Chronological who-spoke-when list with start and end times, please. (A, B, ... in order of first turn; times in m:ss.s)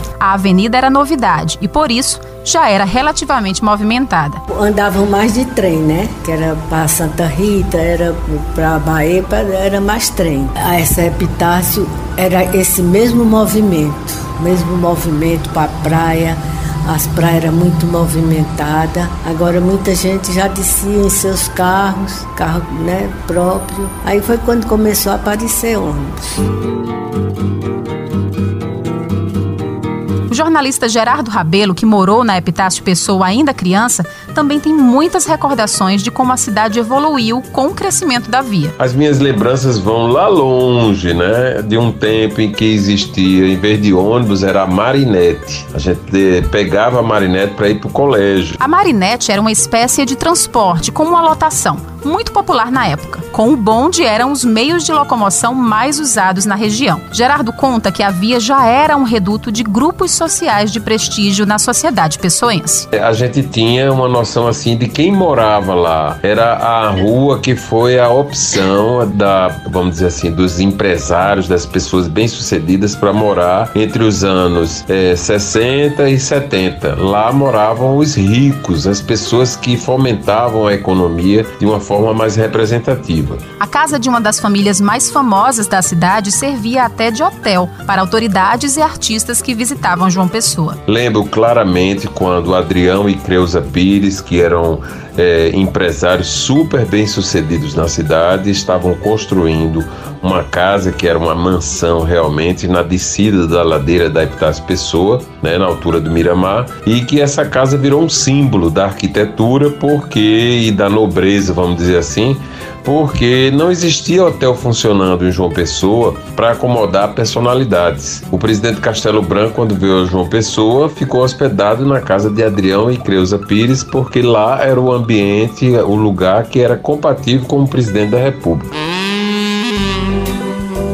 0:00.2-0:04.4 A
0:04.5-0:26.4 B
0:30.3-0:38.7 A
0:38.8-0:48.6 C
0:48.6-1:02.9 A
1:02.9-1:23.4 C
1:23.6-1:30.8 A
1:30.9-2:08.7 C